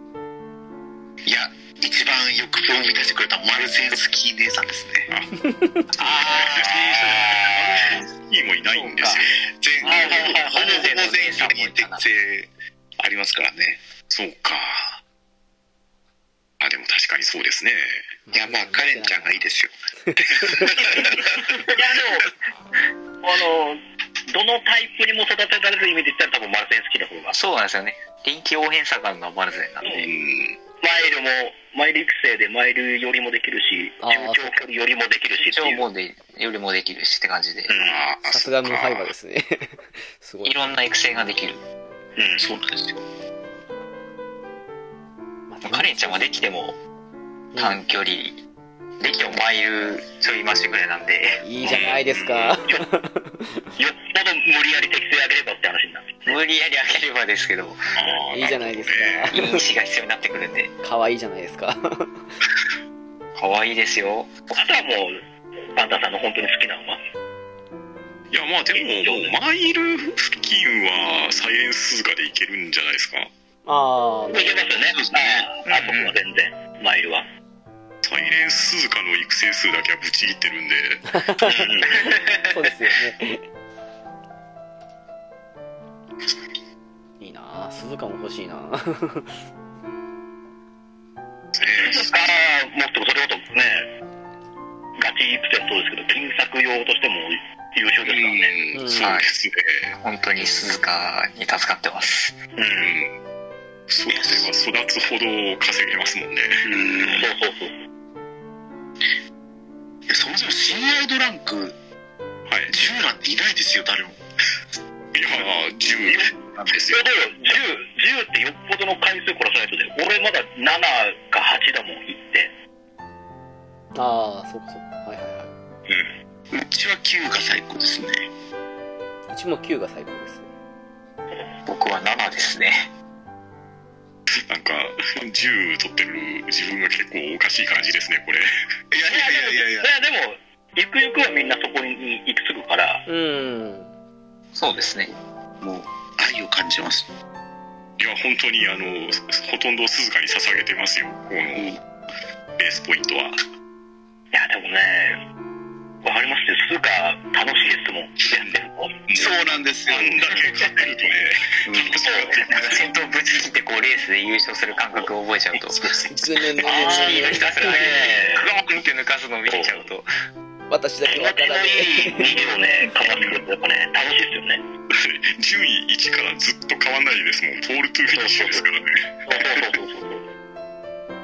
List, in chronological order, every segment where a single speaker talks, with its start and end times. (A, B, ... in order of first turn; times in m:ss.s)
0:01.2-0:05.1 A
0:05.4-0:05.9 B
0:05.9-0:09.5 C
0:06.2-0:08.0 D
0:09.6-0:13.8 A
0:09.8-0:11.1 D
0:09.8-0:12.0 E
0:14.1-0:15.0 C
0:16.6-0:18.0 C
0:18.2-0:21.1 B
0:18.3-0:19.7 A
0:20.6-0:21.1 C
0:21.0-0:22.3 D
0:23.2-0:27.4 D
0:27.3-0:30.0 E
0:29.9-0:30.6 C
0:30.8-0:35.8 D
0:34.0-0:34.6 B
0:35.4-0:37.7 E
0:37.7-0:38.0 D
0:37.8-0:39.1 C
0:38.2-0:40.6 B
0:40.4-0:41.6 E
0:42.2-0:42.4 D
0:42.4-0:43.0 A
0:45.5-0:46.5 B
0:45.6-0:46.8 E
0:47.5-0:47.8 B
0:47.6-0:48.4 E
0:49.0-0:51.4 E
0:51.4-0:53.6 B
0:51.6-0:52.6 C
0:53.8-0:56.4 D
0:56.2-0:57.8 E
0:58.0-0:59.4 C
0:58.3-0:59.6 B
0:59.3-1:00.7 E
1:00.8-1:02.2 B
1:03.4-1:04.3 E
1:04.5-1:05.2 D
1:05.7-1:07.0 D
1:08.3-1:13.3 C
1:08.7-1:09.4 D
1:13.6-1:14.6 B
1:14.3-1:17.2 D
1:14.7-1:15.5 A
1:15.6-1:16.1 E
1:18.0-1:21.1 C
1:21.1-1:21.8 B
1:21.5-1:22.1 D
1:21.6-1:22.5 E
1:22.5-1:23.4 B
1:27.2-1:29.4 B
1:31.5-1:32.2 C
1:31.8-1:33.9 D
1:35.0-1:38.5 D
1:38.0-1:39.9 C
1:38.7-1:39.1 B
1:39.0-1:39.3 E
1:39.9-1:42.4 E
1:42.6-1:43.0 D
1:42.7-1:43.1 C
1:43.9-1:47.3 C
1:44.1-1:44.5 A
1:46.7-1:47.1 A
1:47.0-1:47.8 D
1:50.1-1:51.8 A
1:52.5-1:52.8 C
1:52.7-1:54.2 A
1:55.1-1:57.1 C
1:56.0-1:56.4 D
1:56.9-2:02.5 D
2:03.9-2:05.6 B
2:05.9-2:06.1 D
2:06.5-2:08.3 A
2:09.3-2:10.5 B
2:11.3-2:11.6 D
2:11.6-2:12.9 E
2:14.3-2:18.5 C
2:18.9-2:19.9 A
2:19.1-2:23.0 D
2:23.1-2:23.9 B
2:24.5-2:25.1 E
2:25.6-2:27.1 A
2:28.0-2:31.8 C
2:32.6-2:33.4 C
2:34.3-2:35.2 D
2:36.0-2:39.0 D
2:39.1-2:39.3 C
2:39.1-2:40.3 A
2:39.9-2:42.9 C
2:39.9-2:40.3 D
2:41.6-2:42.0 A
2:42.0-2:42.4 D
2:42.4-2:46.0 E
2:45.8-2:46.1 C
2:46.1-2:47.8 B
2:46.6-2:50.1 E
2:46.6-2:48.5 D
2:49.5-2:49.9 D
2:50.7-2:52.3 B
2:51.1-2:54.6 D
2:54.9-2:59.6 C
2:58.1-2:58.6 D
2:59.3-3:00.2 D